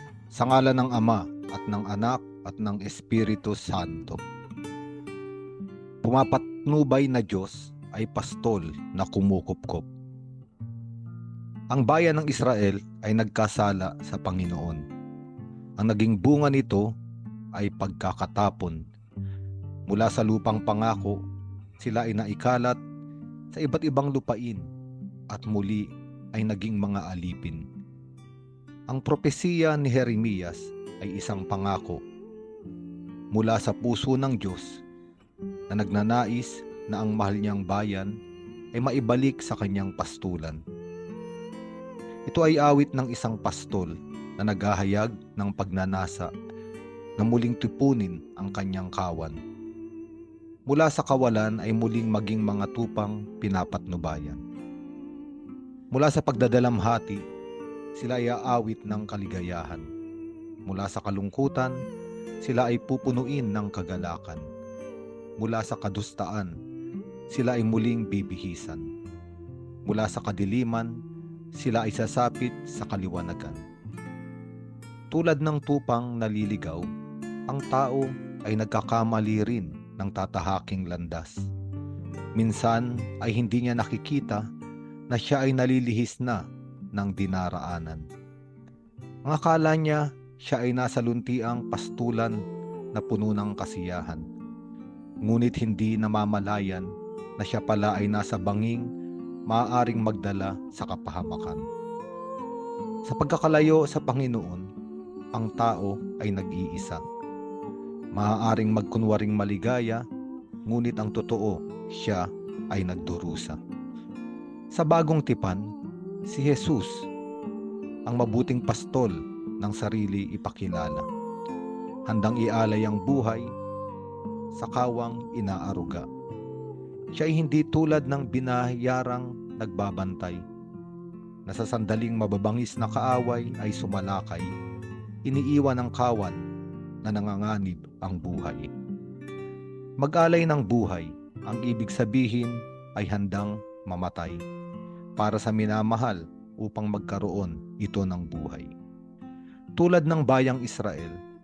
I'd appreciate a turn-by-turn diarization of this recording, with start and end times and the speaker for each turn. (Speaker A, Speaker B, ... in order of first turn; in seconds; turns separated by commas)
Speaker A: 0.3-4.2, Speaker A: 6.0-9.9, Speaker A: 11.7-14.8, Speaker A: 15.8-16.9, Speaker A: 17.6-18.8, Speaker A: 19.9-21.2, Speaker A: 21.8-22.8, Speaker A: 23.5-24.6, Speaker A: 25.3-27.6, Speaker A: 28.9-32.0, Speaker A: 33.3-34.8, Speaker A: 35.7-38.1, Speaker A: 38.8-40.6, Speaker A: 42.3-46.3, Speaker A: 47.2-49.4, Speaker A: 50.7-54.4, Speaker A: 55.9-57.2, Speaker A: 58.0-59.8, Speaker A: 60.7-61.8, Speaker A: 62.4-64.5, Speaker A: 65.4-66.5, Speaker A: 67.3-68.9, Speaker A: 69.9-70.9, Speaker A: 71.6-73.6, Speaker A: 75.1-76.9, Speaker A: 77.5-81.4, Speaker A: 82.4-84.4, Speaker A: 85.1-86.4, Speaker A: 87.0-88.1, Speaker A: 89.2-92.4, Speaker A: 92.9-94.2, Speaker A: 95.2-96.8, Speaker A: 97.4-98.8, Speaker A: 99.5-101.6, Speaker A: 103.1-104.7, Speaker A: 105.3-107.0, Speaker A: 108.2-110.0, Speaker A: 110.7-113.6, Speaker A: 114.7-115.7, Speaker A: 116.3-117.0, Speaker A: 118.1-121.1, Speaker A: 122.1-123.5, Speaker A: 124.5-126.1, Speaker A: 127.1-130.4, Speaker A: 131.5-134.5, Speaker A: 135.2-136.4, Speaker A: 137.1-138.7, Speaker A: 140.0-144.4, Speaker A: 145.2-148.7, Speaker A: 149.8-151.2